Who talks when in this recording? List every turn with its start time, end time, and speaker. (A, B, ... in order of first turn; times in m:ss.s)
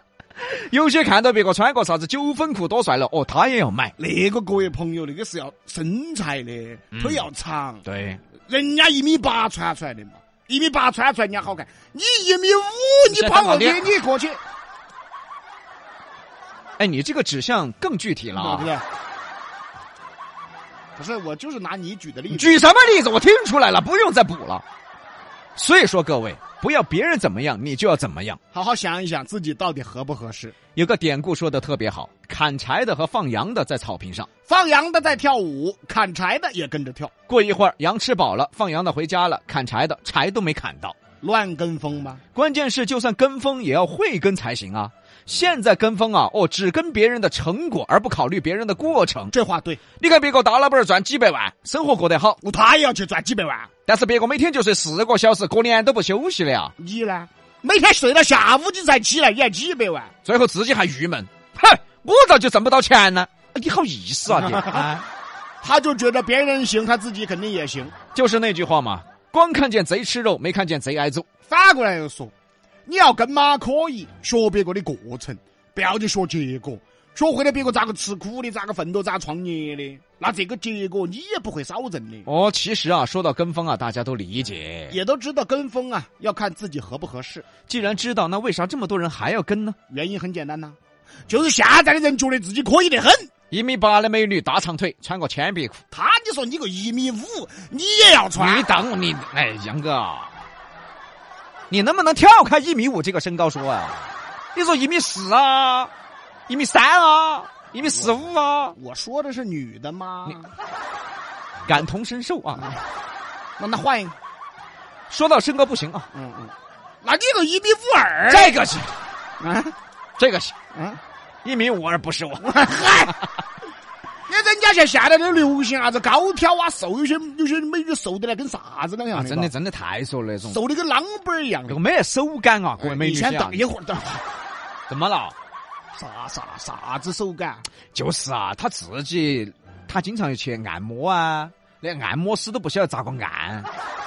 0:00.4-0:03.9 A
0:04.0-0:07.8 B
0:06.9-0:07.2 A
0:07.8-0:08.2 A
0:08.5-0:14.4 B
0:13.1-0:13.8 A
0:16.8-0:18.7 A
0:18.3-0:18.8 B
0:21.0-0:22.6 B
0:22.3-0:24.6 A
0:25.6-0:28.4 A
0:28.5-0:30.5 B
0:30.7-0:34.3 A
0:34.5-0:37.1 B
0:37.3-0:41.0 A
0:41.2-0:42.2 B
0:42.3-0:49.3 A
0:49.3-0:49.8 B
0:50.0-0:52.4 A
0:52.4-0:53.7 B
0:53.9-0:56.7 A
0:56.8-1:00.1 B
1:00.2-1:05.0 A
1:04.4-1:04.9 B
1:05.6-1:07.9 B
1:08.1-1:11.2 A
1:11.5-1:12.3 B
1:12.8-1:22.3 B
1:22.2-1:25.0 A
1:24.9-1:27.4 B
1:27.7-1:29.8 A
1:29.9-1:30.8 B
1:31.3-1:33.3 B
1:33.5-1:35.8 A
1:35.9-1:38.7 B
1:38.4-1:40.3 A
1:41.7-1:45.9 A
1:46.5-1:48.7 A
1:48.7-1:50.5 B
1:51.6-1:52.7 A
1:53.6-1:54.1 B
1:55.1-1:56.1 A
1:56.1-1:58.6 B
1:58.3-1:59.0 A
1:59.4-1:59.7 B
2:00.2-2:00.5 A
2:00.7-2:01.0 B
2:01.4-2:02.8 A
2:02.4-2:03.2 B
2:04.3-2:09.5 B
2:09.1-2:10.6 A
2:10.5-2:11.8 B
2:11.7-2:13.6 A
2:12.8-2:14.2 B
2:14.9-2:15.3 A
2:15.9-2:17.6 B
2:17.9-2:23.7 A